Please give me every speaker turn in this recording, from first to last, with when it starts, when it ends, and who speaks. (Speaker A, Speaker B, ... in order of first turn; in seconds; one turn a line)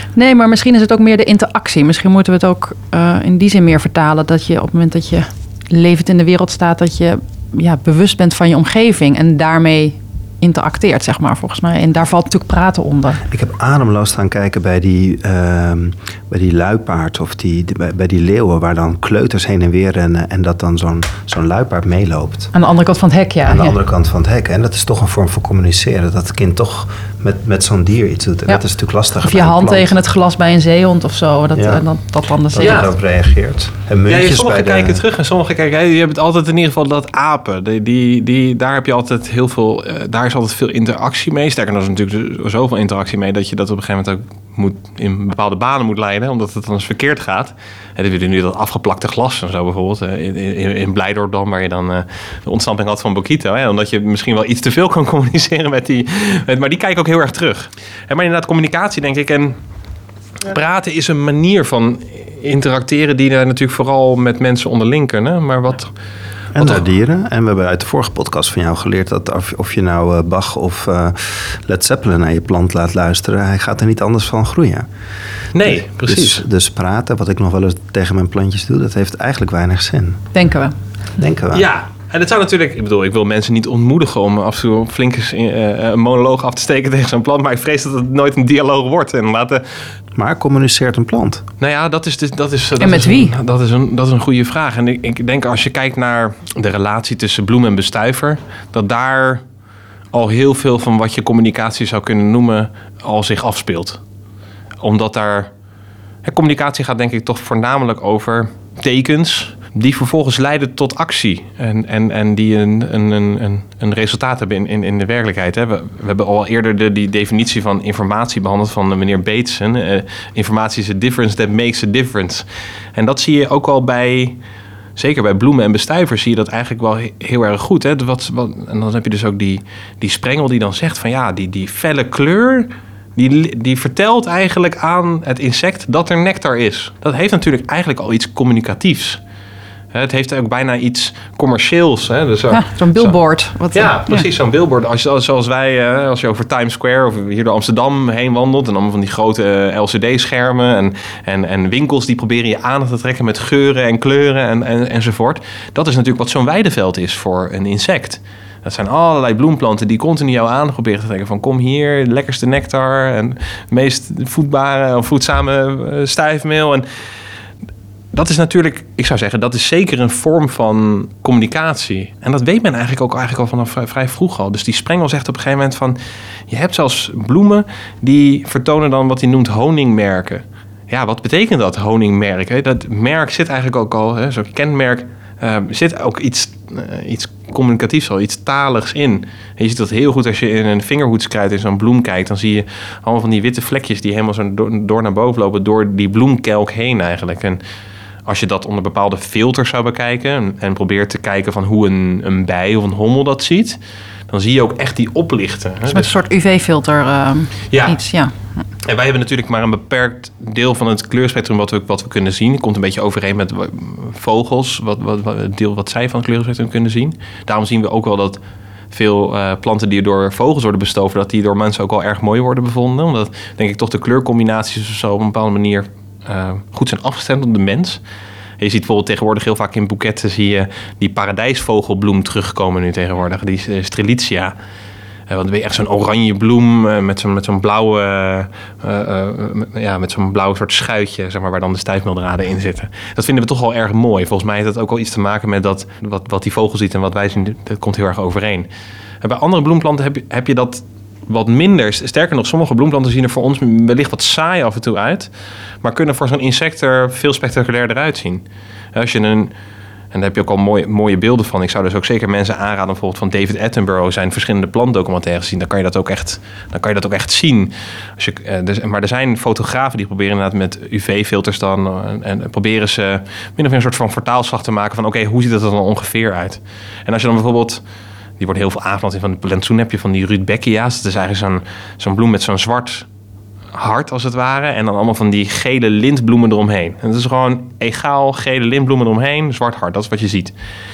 Speaker A: 0.1-13.2
Speaker B: 13.3-22.5
Speaker A: 22.5-23.8
Speaker B: 23.4-29.9
Speaker A: 29.2-32.9
Speaker B: 31.5-31.9
Speaker B: 32.5-35.0
Speaker C: 32.6-32.9
Speaker C: 34.1-59.6
Speaker C: 60.5-65.9
Speaker B: 66.5-74.8
Speaker C: 75.5-76.4
Speaker B: 75.6-80.2
Speaker A: 80.3-80.8
Speaker B: 81.2-81.7
Speaker C: 81.5-89.8
Speaker B: 90.1-91.5
Speaker C: 91.6-99.4
Speaker A: 92.8-93.3
Speaker C: 100.1-104.0
Speaker C: 104.8-105.5
Speaker C: 106.2-124.4
Speaker C: 125.0-139.2
Speaker C: 139.9-143.2
Speaker A: 142.5-144.3
Speaker C: 143.7-166.8
Speaker C: 168.1-176.0
Speaker C: 176.5-197.6
Speaker C: 198.2-206.1
Speaker A: 205.9-208.3
Speaker C: 207.7-208.0
Speaker C: 208.8-218.4
Speaker C: 218.9-228.0
Speaker C: 228.6-234.5
Speaker C: 235.3-248.7
Speaker C: 249.2-255.3
Speaker C: 255.8-258.4
Speaker C: 258.9-259.5
Speaker C: 260.1-277.8
Speaker C: 278.4-283.1
Speaker C: 283.7-290.5